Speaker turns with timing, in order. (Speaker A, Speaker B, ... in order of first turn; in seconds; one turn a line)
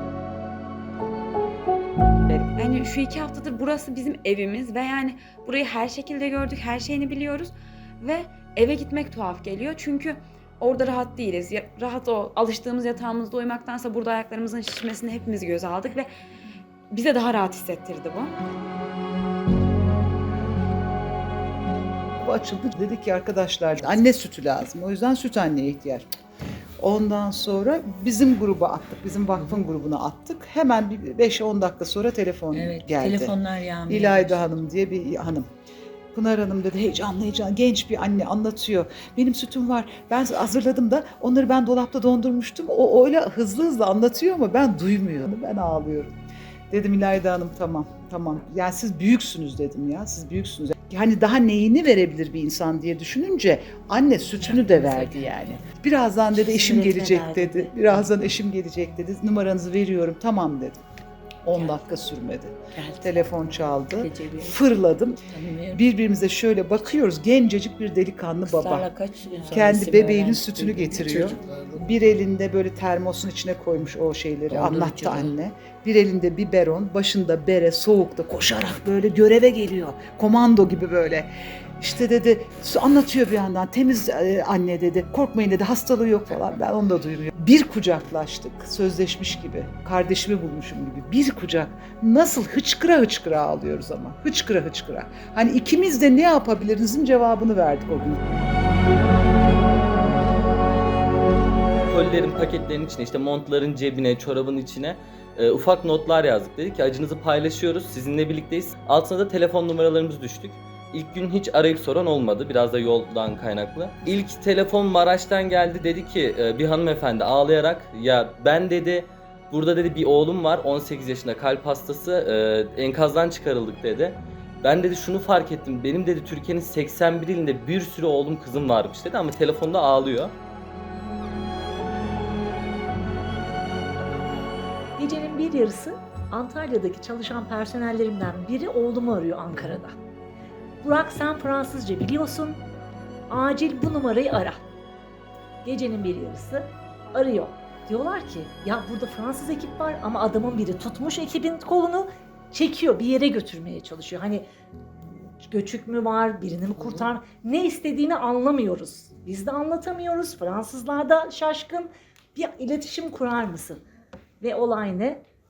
Speaker A: 2.3-16.1
Speaker A: 16.9-18.3
Speaker B: 22.2-26.1
Speaker B: 26.8-35.5
Speaker C: 32.5-34.5
Speaker B: 36.1-46.1
Speaker B: 46.7-60.8
Speaker C: 54.6-55.1
Speaker C: 56.3-58.0
Speaker B: 61.4-65.2
Speaker C: 62.8-63.1
Speaker C: 63.9-64.6
Speaker C: 65.3-65.8
Speaker B: 65.7-68.9
Speaker C: 68.5-71.7
Speaker B: 69.4-98.2
Speaker C: 74.5-75.3
Speaker D: 101.8-130.3
Speaker E: 135.0-139.9
Speaker E: 140.8-142.6
Speaker E: 143.3-144.6
Speaker E: 145.6-154.4
Speaker E: 155.4-163.8
Speaker E: 164.4-165.2